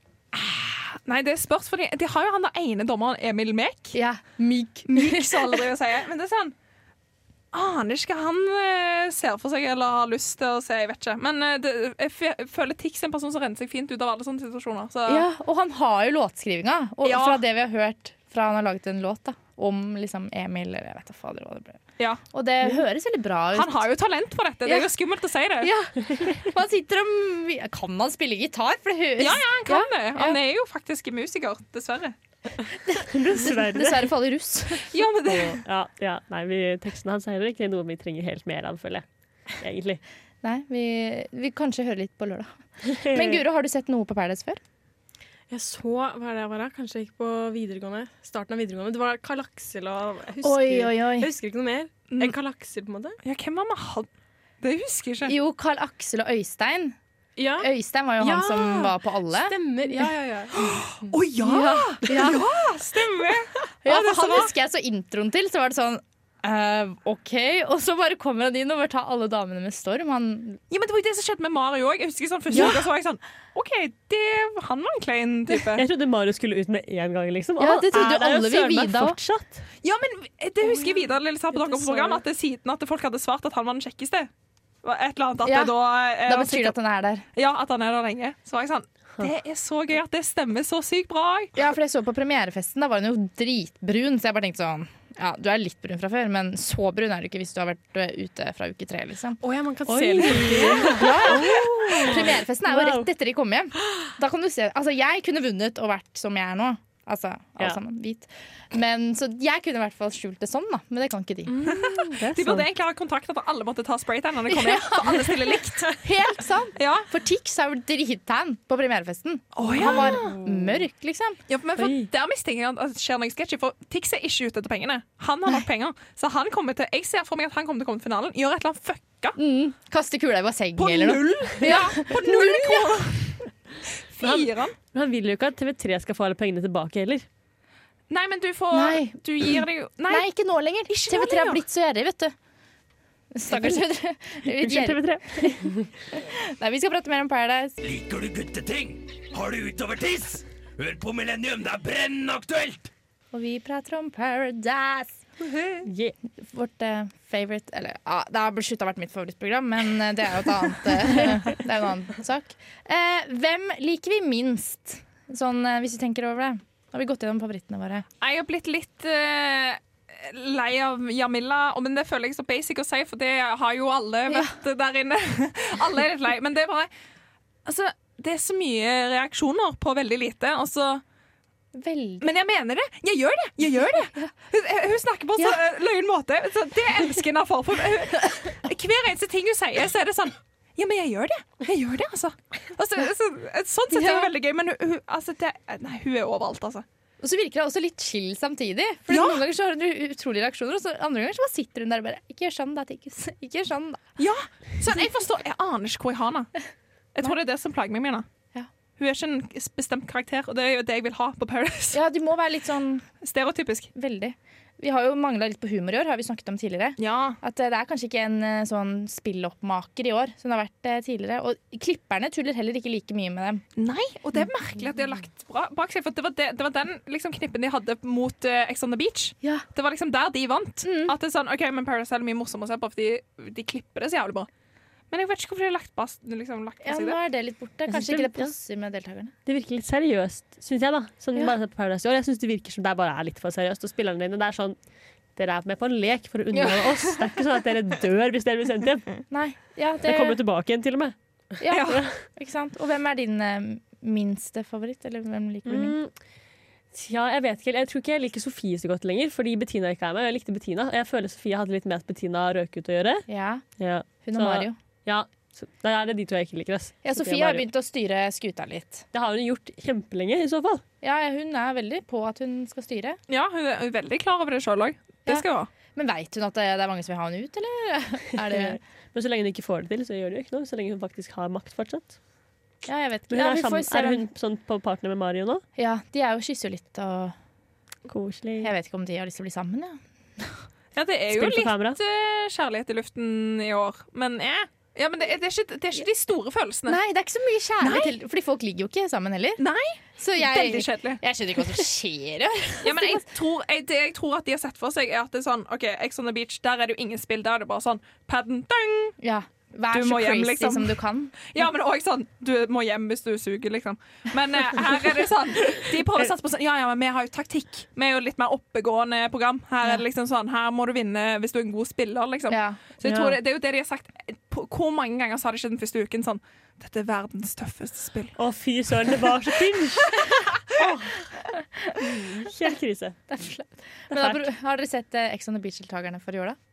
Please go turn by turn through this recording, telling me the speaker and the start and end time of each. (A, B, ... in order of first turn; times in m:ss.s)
0:00.3-0:04.0 A
0:03.9-0:05.7 B
0:04.9-0:06.5 A
0:07.5-0:15.3 A
0:15.1-0:21.8 B
0:17.0-0:17.4 A
0:22.3-0:23.9 B
0:23.5-0:25.7 A
0:25.6-0:30.4 B
0:29.2-0:32.1 A
0:32.9-0:34.9 B
0:33.0-0:34.1 C
0:34.9-0:35.6 A
0:35.2-0:39.0 C
0:39.6-0:40.0 C
0:40.4-0:44.6 B
0:42.9-0:43.4 C
0:45.5-0:53.2 D
0:50.4-0:51.3 B
0:52.1-0:52.4 A
0:53.2-0:54.1 A
0:54.6-0:55.3 A
0:55.3-0:57.0 B
0:57.4-1:01.2 D
0:57.6-1:00.1 B
1:00.6-1:04.5 A
1:01.4-1:02.4 B
1:03.8-1:10.6 B
1:10.7-1:15.8 A
1:12.5-1:12.8 B
1:15.7-1:19.6 C
1:17.6-1:19.2 B
1:19.8-1:24.3 A
1:21.5-1:22.2 D
1:24.8-1:26.8 A
1:25.4-1:27.2 B
1:27.3-1:31.6 A
1:31.6-1:39.4 B
1:39.4-1:41.1 D
1:39.8-1:43.1 C
1:40.8-1:51.6 B
1:51.5-1:52.2 D
1:51.6-1:56.0 A
1:52.2-1:52.7 C
1:54.5-2:01.4 B
1:56.8-1:57.1 A
1:59.5-2:00.3 A
2:00.0-2:00.8 D
2:01.5-2:09.4 A
2:01.8-2:02.1 C
2:09.4-2:13.0 B
2:10.8-2:13.4 A
2:14.1-2:14.8 A
2:14.2-2:17.3 C
2:18.1-2:20.3 A
2:18.7-2:19.2 B
2:20.1-2:22.3 B
2:20.9-2:21.6 A
2:23.3-2:27.8 B
2:23.5-2:23.8 C
2:24.4-2:25.7 C
2:27.8-2:32.9 E
2:33.3-2:35.2 B
2:35.8-2:36.1 C
2:36.4-2:48.0 B
2:48.2-2:56.9 A
2:54.3-2:54.5 B
2:57.6-3:01.0 A
3:01.7-3:02.3 B
3:02.2-3:16.8 A
3:13.9-3:14.3 B
3:17.2-3:24.0 B
3:19.1-3:19.4 A
3:24.2-3:26.5 A
3:27.1-3:28.2 A
3:29.0-3:32.0 A
3:31.9-3:33.0 B
3:33.2-3:33.9 A
3:33.9-3:43.6 B
3:37.0-3:37.4 A
3:43.8-3:54.5 A
3:50.8-3:51.1 B
3:55.1-3:57.2 A
3:56.8-3:59.3 B
3:57.9-3:58.5 C
3:59.4-4:04.8 C
4:05.3-4:09.2 C
4:09.3-4:10.4 B
4:10.0-4:11.2 C
4:11.6-4:16.0 B
4:11.7-4:12.0 A
4:15.6-4:16.1 C
4:16.9-4:23.2 C
4:23.3-4:23.6 B
4:23.8-4:27.6 C
4:24.2-4:24.8 B
4:27.0-4:29.0 B
4:29.1-4:30.8 C
4:31.0-4:33.2 B
4:33.3-4:35.7 A
4:35.2-4:38.8 B
4:38.4-4:42.2 C
4:42.8-4:44.2 B
4:43.3-4:45.6 C
4:45.8-4:47.3 B
4:48.1-4:48.7 C
4:48.6-4:50.0 B
4:51.0-4:57.0 A
4:51.3-4:52.0 C
4:56.9-4:59.6 B
4:57.8-4:58.2 A
4:59.6-5:01.2 A
5:00.2-5:03.2 B
5:02.8-5:09.2 A
5:09.2-5:11.5 B
5:09.9-5:28.4 A
5:16.1-5:16.3 C
5:22.5-5:22.8 B
5:23.0-5:23.4 C
5:28.4-5:30.2 C
5:30.8-5:32.5 B
5:32.0-5:33.2 C
5:33.3-5:36.6 B
5:34.1-5:34.4 C